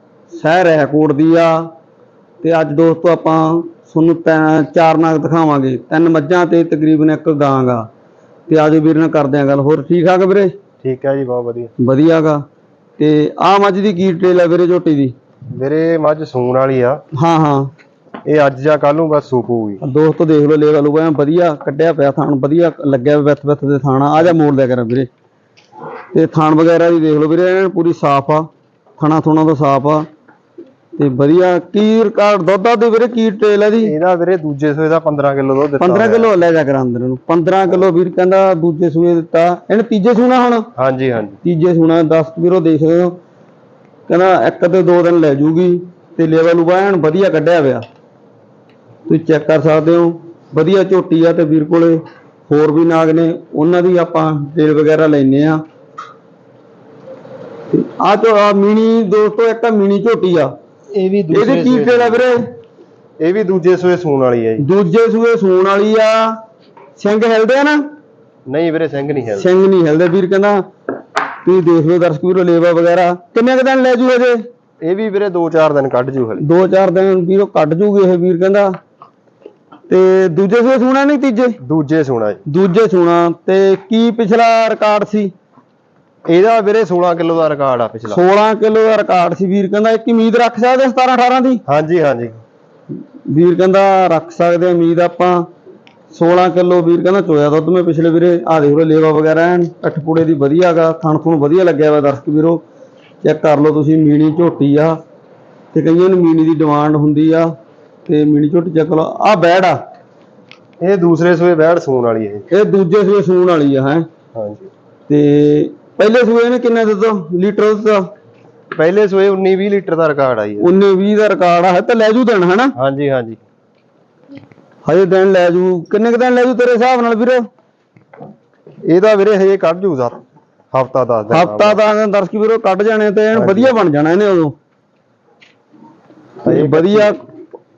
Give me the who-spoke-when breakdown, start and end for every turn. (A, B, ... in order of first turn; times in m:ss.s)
0:00.3-0:01.7 A
0:02.4-0:07.9 A
0:08.5-0:10.5 A
0:10.8-0:11.7 B
0:11.8-0:12.4 A
0:13.0-0:15.1 A
0:15.5-0:17.0 B
0:17.2-0:17.7 A
0:18.2-0:19.8 B
0:19.8-0:25.1 A
0:26.1-0:30.1 A
0:31.0-0:33.9 A
0:33.8-0:36.3 B
0:35.8-0:40.7 A
0:40.8-0:41.4 B
0:41.4-0:43.2 A
0:44.1-0:47.8 A
0:49.1-0:55.6 A
0:57.7-1:00.5 A
1:00.9-1:02.2 B
1:01.3-1:02.4 A
1:03.2-1:04.6 B
1:04.6-1:06.4 A
1:07.0-1:07.8 A
1:08.5-1:09.5 B
1:09.4-1:10.6 A
1:11.4-1:14.5 A
1:14.8-1:16.4 B
1:16.4-1:18.7 A
1:19.9-1:21.6 A
1:21.6-1:22.4 B
1:22.5-1:25.3 A
1:26.3-1:28.2 B
1:28.1-1:31.6 A
1:31.7-1:32.4 B
1:33.3-1:35.4 A
1:36.1-1:42.6 A
1:43.2-1:45.0 A
1:45.7-1:47.5 A
1:48.1-1:49.8 A
1:50.8-1:52.5 B
1:52.5-1:54.1 A
1:54.4-1:54.7 B
1:55.1-1:58.1 A
1:58.8-2:00.7 B
2:00.6-2:02.7 A
2:02.8-2:03.4 B
2:04.9-2:07.5 A
2:08.9-2:10.2 B
2:10.7-2:11.8 B
2:11.3-2:14.6 A
2:13.3-2:13.8 B
2:16.4-2:17.2 B
2:16.5-2:17.2 A